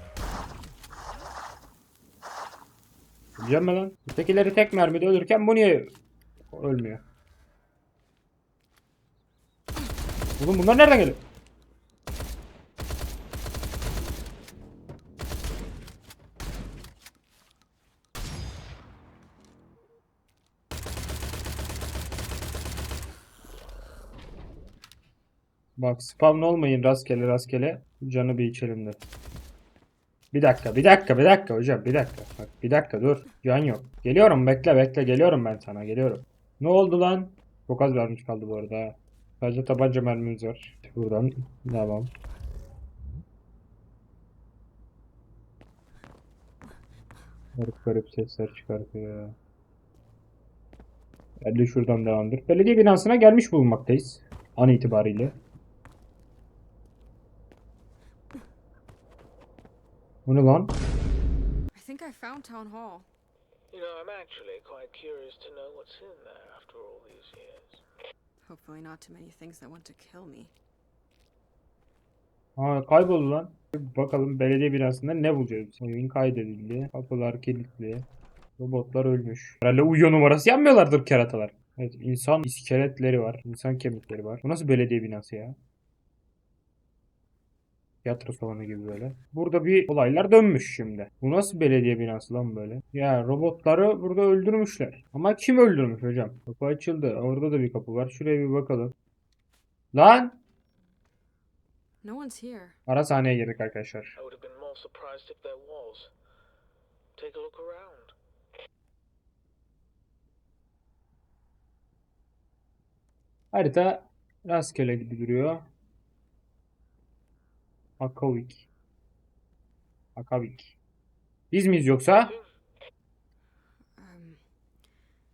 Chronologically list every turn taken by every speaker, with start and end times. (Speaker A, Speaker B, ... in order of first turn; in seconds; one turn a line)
Speaker A: 3.4-5.9
Speaker A: 6.5-7.0
Speaker A: 10.4-11.2
Speaker A: 25.8-29.0
Speaker A: 30.3-42.1
Speaker A: 47.6-49.4
Speaker A: 51.4-55.4
Speaker A: 60.3-60.8
Speaker B: 61.7-63.1
Speaker C: 63.7-67.8
Speaker B: 68.5-70.5
Speaker A: 72.6-78.1
Speaker A: 78.6-85.6
Speaker A: 88.0-99.0
Speaker A: 99.9-100.4
Speaker B: 102.0-102.8
Speaker A: 102.9-104.2
Speaker C: 104.2-106.1
Speaker C: 107.2-108.1
Speaker A: 113.5-115.7
Speaker A: 118.0-118.7
Speaker A: 120.2-120.8
Speaker A: 121.5-122.4
Speaker C: 122.2-122.5
Speaker B: 124.0-124.4